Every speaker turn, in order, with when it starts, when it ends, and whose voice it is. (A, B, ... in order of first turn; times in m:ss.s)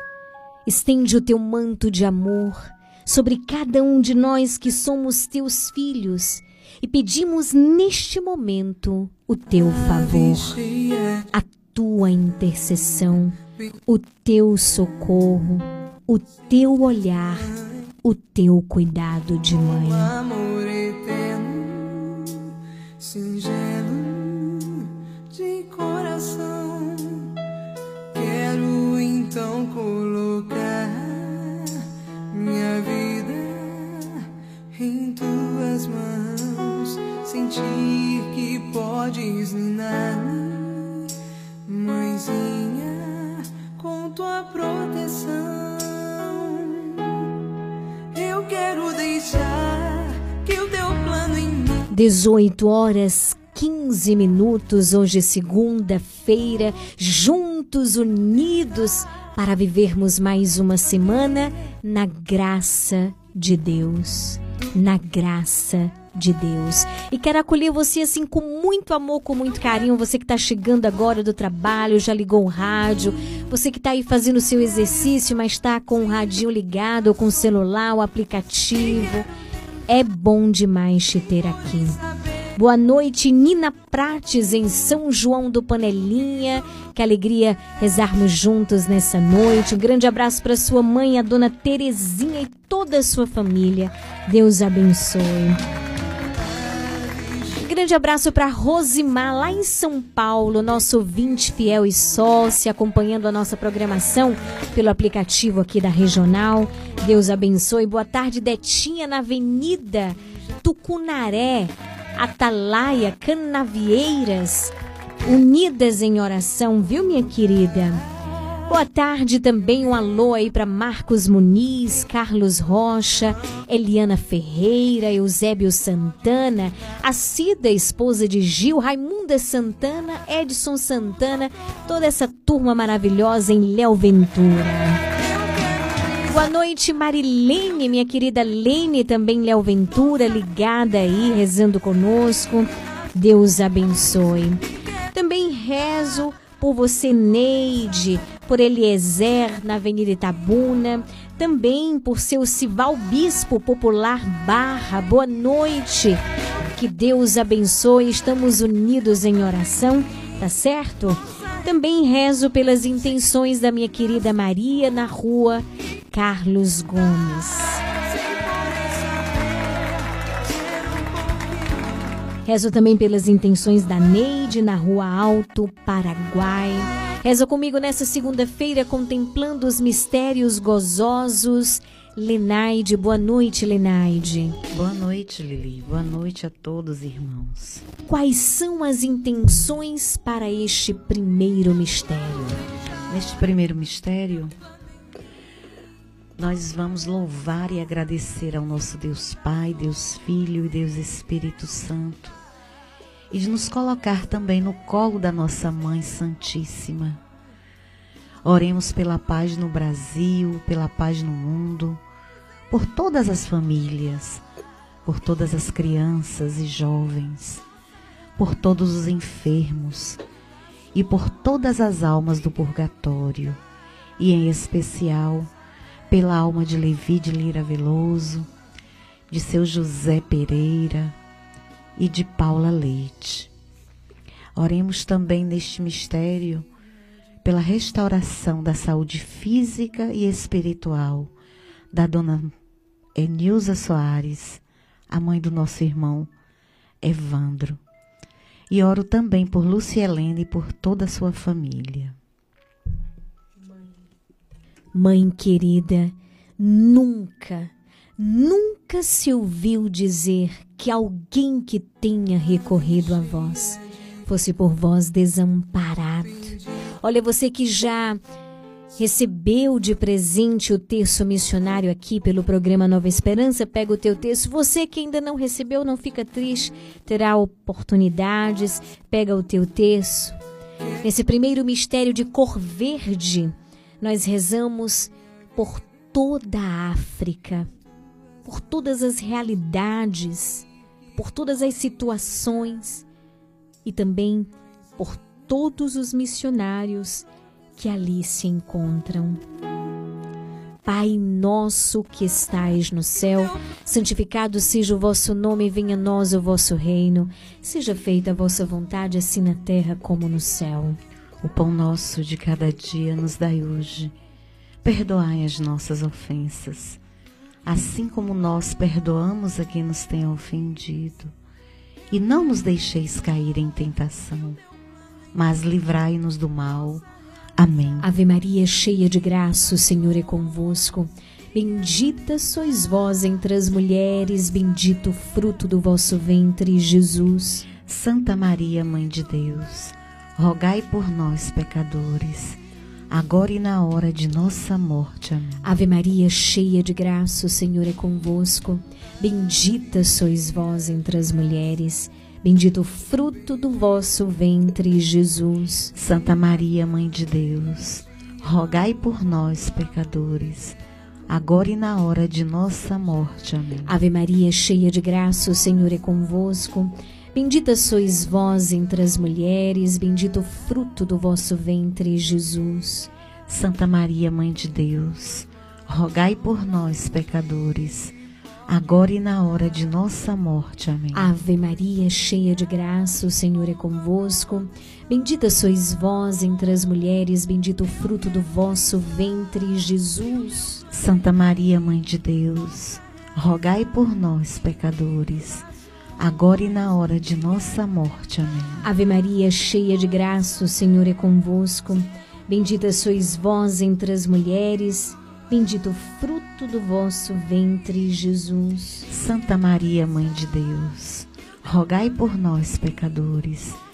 0:00.7-0:10.6 A
0:09.7-0:11.3 B
0:11.3-0:13.4 A
0:13.9-0:17.5 A
0:18.0-0:20.1 A
0:19.7-0:22.5 B
0:23.0-0:27.3 B
0:28.1-0:41.1 B
0:41.7-0:47.3 B
0:48.1-0:51.9 B
0:51.9-1:19.3 A
1:19.9-1:22.0 A
1:22.6-1:35.6 A
1:37.6-1:54.7 A
1:55.2-1:58.0 A
1:58.7-2:15.0 A
2:15.3-2:16.3 B
2:16.3-2:24.6 A
2:25.1-2:36.2 A
2:36.8-2:47.8 A
2:48.1-2:52.0 B
2:52.5-3:04.6 A
3:04.7-3:07.8 C
3:08.1-3:12.6 A
3:13.1-3:14.5 C
3:16.4-3:22.4 C
3:23.3-3:27.2 C
3:28.4-3:32.0 C
3:32.7-3:34.4 C
3:35.0-3:37.6 C
3:38.4-3:40.2 C
3:40.9-3:43.6 C
3:44.2-3:45.5 C
3:46.1-3:48.5 C
3:49.3-3:51.2 C
3:52.0-3:53.5 C
3:54.6-3:56.7 C
3:57.4-4:01.3 C
4:01.9-4:02.5 C
4:03.2-4:06.3 C
4:07.0-4:07.8 C
4:08.7-4:12.2 C
4:15.0-4:28.2 A
4:29.0-4:40.4 A
4:41.0-4:47.7 A
4:48.5-4:50.6 A
4:51.2-4:53.0 A
4:53.9-4:57.2 A
4:57.8-4:59.4 A
5:00.9-5:11.0 A
5:11.4-5:14.1 C
5:14.8-5:17.0 C
5:17.7-5:21.3 C
5:22.1-5:24.6 C
5:25.3-5:27.0 C
5:27.6-5:28.1 C
5:28.0-5:37.6 A
5:37.8-5:42.6 C
5:43.1-5:45.7 C
5:45.6-5:55.9 A
5:56.0-6:00.8 C
6:01.3-6:04.0 C
6:03.9-6:13.1 A
6:13.5-6:18.1 C
6:18.7-6:21.3 C
6:21.1-6:30.8 A
6:30.9-6:35.6 C
6:36.2-6:38.9 C
6:38.8-6:49.0 A
6:49.1-6:53.8 C